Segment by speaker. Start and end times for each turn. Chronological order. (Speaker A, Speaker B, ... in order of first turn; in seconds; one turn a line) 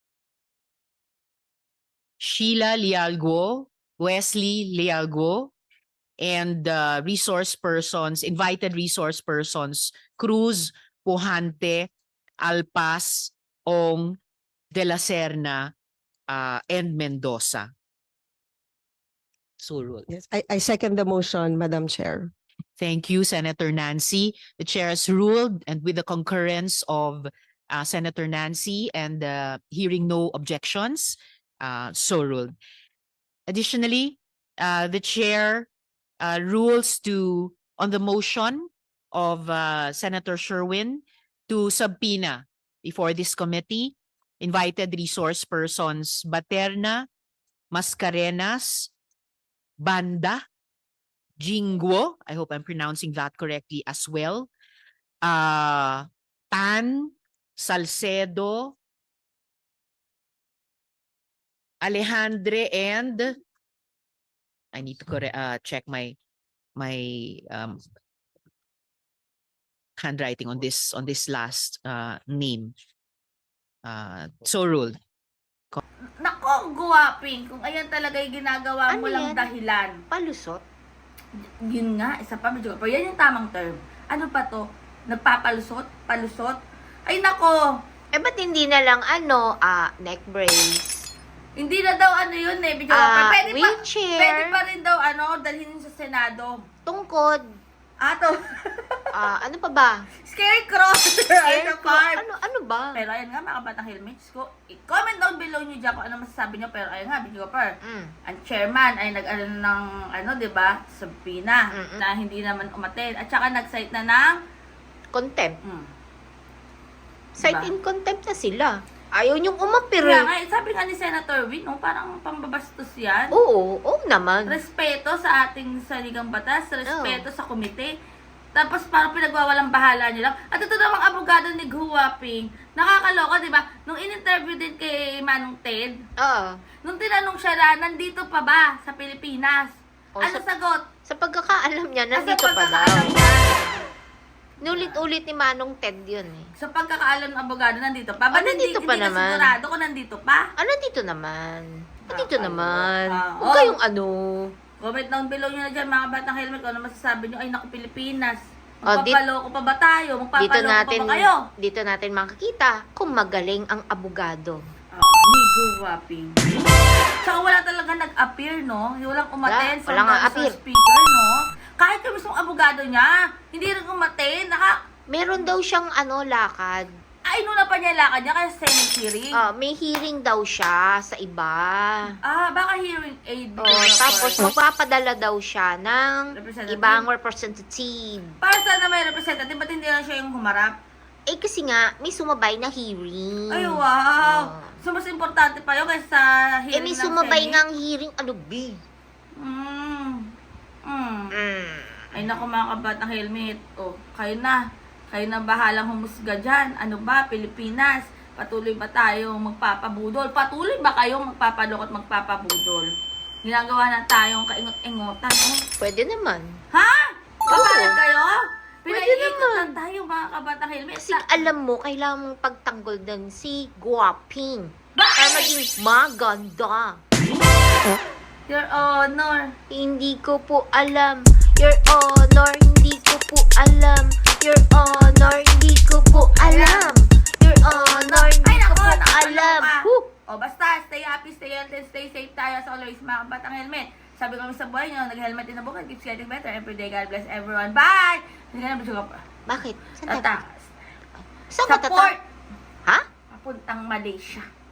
Speaker A: 2.2-5.5
Speaker A: 6.2-14.2
Speaker A: 14.7-15.7
Speaker A: 16.3-17.7
Speaker A: 19.6-20.1
Speaker B: 20.1-22.3
Speaker A: 22.8-32.5
Speaker A: 33.5-35.7
Speaker A: 36.2-47.1
Speaker A: 47.7-48.9
Speaker A: 49.8-50.4
Speaker A: 51.4-54.5
Speaker A: 55.2-58.8
Speaker A: 61.8-63.4
Speaker A: 64.7-66.2
Speaker A: 66.8-67.8
Speaker A: 70.0-72.7
Speaker A: 73.8-75.0
Speaker C: 76.2-80.0
Speaker D: 78.9-79.5
Speaker D: 80.1-80.6
Speaker C: 81.7-87.6
Speaker D: 88.1-91.1
Speaker C: 91.6-96.6
Speaker D: 92.9-94.5
Speaker D: 96.9-97.5
Speaker C: 98.0-99.0
Speaker D: 99.1-100.0
Speaker C: 100.2-102.2
Speaker D: 101.4-103.0
Speaker C: 102.9-107.7
Speaker D: 107.8-108.1
Speaker C: 108.2-114.4
Speaker D: 111.7-112.0
Speaker D: 115.1-115.6
Speaker C: 115.6-115.9
Speaker D: 117.4-120.3
Speaker C: 117.4-117.7
Speaker C: 120.0-123.3
Speaker D: 123.3-124.6
Speaker C: 124.5-127.9
Speaker D: 126.8-127.2
Speaker C: 128.5-136.0
Speaker D: 136.2-136.6
Speaker C: 136.8-140.8
Speaker D: 140.2-140.4
Speaker D: 141.1-143.2
Speaker C: 142.1-143.7
Speaker D: 144.6-146.5
Speaker C: 144.7-145.0
Speaker C: 146.6-150.5
Speaker D: 148.3-149.6
Speaker D: 150.6-154.5
Speaker C: 152.1-153.7
Speaker C: 154.8-161.4
Speaker D: 158.9-159.2
Speaker D: 160.4-164.6
Speaker C: 164.9-166.4
Speaker C: 167.2-174.8
Speaker D: 169.4-170.5
Speaker D: 175.1-176.9
Speaker C: 177.3-179.3
Speaker D: 179.3-182.2
Speaker C: 182.2-184.4
Speaker D: 183.6-188.3
Speaker C: 186.3-187.1
Speaker C: 188.4-190.7
Speaker D: 191.3-194.7
Speaker C: 193.5-197.6
Speaker D: 196.7-198.8
Speaker C: 199.4-200.2
Speaker C: 200.8-201.3
Speaker D: 201.3-202.2
Speaker C: 202.1-204.6
Speaker C: 205.1-212.8
Speaker C: 213.4-215.6
Speaker D: 215.8-216.6
Speaker C: 216.7-221.4
Speaker D: 217.5-218.0
Speaker D: 218.9-219.8
Speaker D: 221.0-227.0
Speaker C: 225.0-225.5
Speaker C: 228.5-229.5
Speaker D: 229.7-240.1
Speaker C: 236.1-236.9
Speaker C: 237.7-249.2
Speaker D: 249.5-250.3
Speaker C: 250.1-250.7
Speaker D: 251.5-252.1
Speaker C: 251.7-252.2
Speaker C: 253.3-254.4